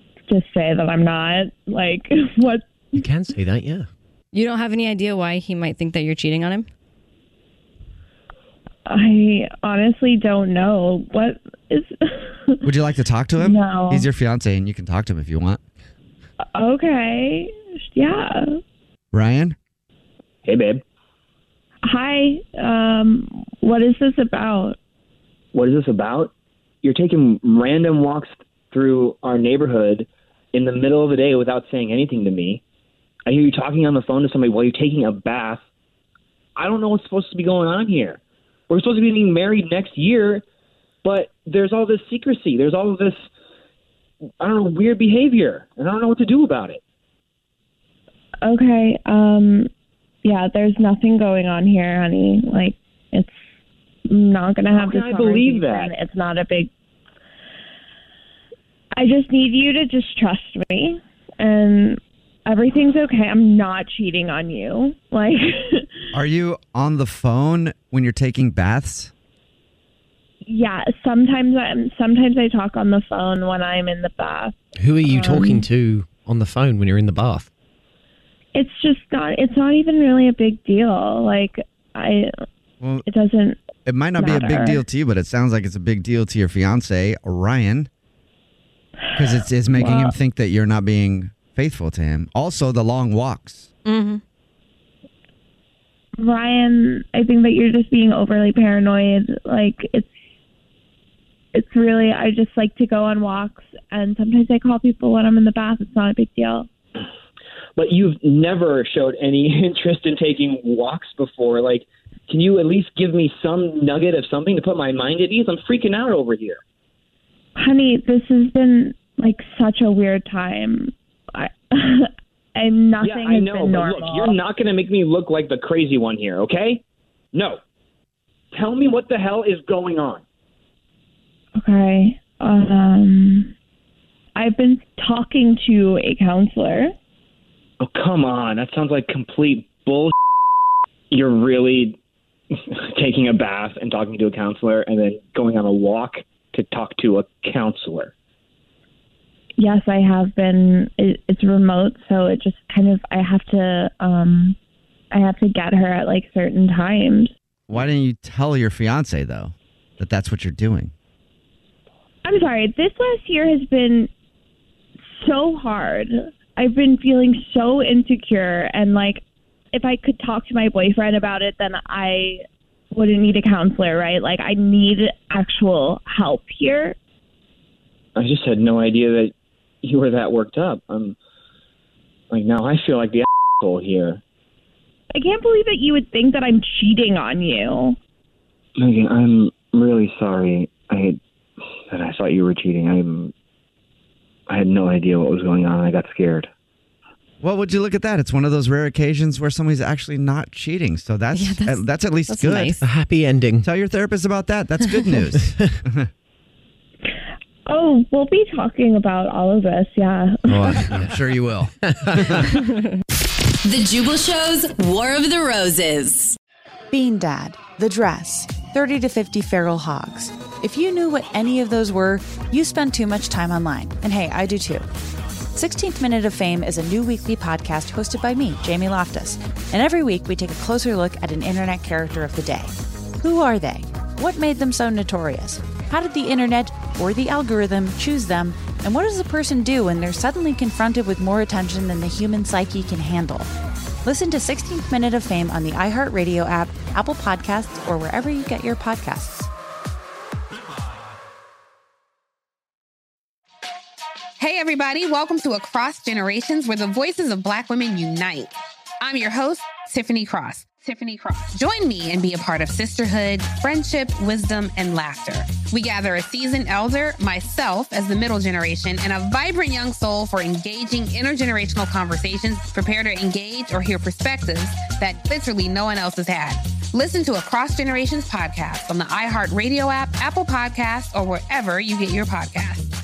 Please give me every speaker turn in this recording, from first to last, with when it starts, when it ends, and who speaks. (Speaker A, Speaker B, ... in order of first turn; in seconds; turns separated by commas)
Speaker A: 0.3-3.0, Speaker B: 3.0-3.9, Speaker C: 4.3-6.7, Speaker A: 8.8-12.6, Speaker D: 12.6-15.6, Speaker A: 13.4-14.1, Speaker A: 16.5-18.6, Speaker D: 19.1-19.6, Speaker E: 20.4-20.8, Speaker A: 21.9-24.8, Speaker E: 25.5-26.3, Speaker E: 26.8-32.6, Speaker E: 33.3-35.6, Speaker E: 36.6-40.4, Speaker E: 41.0-43.1, Speaker E: 44.4-46.8, Speaker A: 48.4-49.7, Speaker A: 50.2-53.4, Speaker A: 54.1-56.7, Speaker E: 54.7-55.8, Speaker A: 59.0-66.0, Speaker D: 66.1-69.1, Speaker A: 70.4-74.5, Speaker B: 74.8-77.5, Speaker A: 75.0-75.7, Speaker A: 78.5-82.3, Speaker D: 82.8-83.0, Speaker A: 83.0-83.6, Speaker D: 83.8-87.9, Speaker A: 84.2-84.8, Speaker D: 89.1-93.7, Speaker A: 89.7-90.1, Speaker C: 93.8-94.2, Speaker A: 96.2-100.1, Speaker A: 101.5-106.7, Speaker E: 107.8-116.6, Speaker A: 117.5-124.4, Speaker E: 123.0-126.8, Speaker E: 127.3-127.6, Speaker E: 128.5-130.2, Speaker A: 131.6-133.5, Speaker A: 134.3-136.9, Speaker E: 137.8-140.1, Speaker E: 141.1-142.0, Speaker E: 142.5-148.1, Speaker A: 149.6-154.6, Speaker A: 155.1-157.3, Speaker D: 157.7-160.9, Speaker A: 162.2-164.1, Speaker A: 165.2-176.9, Speaker E: 178.1-181.2, Speaker E: 182.3-184.2, Speaker A: 185.1-188.0, Speaker E: 188.8-191.2, Speaker E: 191.9-193.3, Speaker E: 194.5-196.4, Speaker D: 197.4-202.8, Speaker C: 201.3-202.8, Speaker B: 202.8-203.6, Speaker D: 203.6-206.1, Speaker A: 207.7-210.9, Speaker B: 210.5-211.1, Speaker D: 210.9-212.5, Speaker F: 213.7-216.3, Speaker G: 216.9-224.8, Speaker G: 225.5-243.5, Speaker G: 244.0-249.5, Speaker H: 254.4-282.9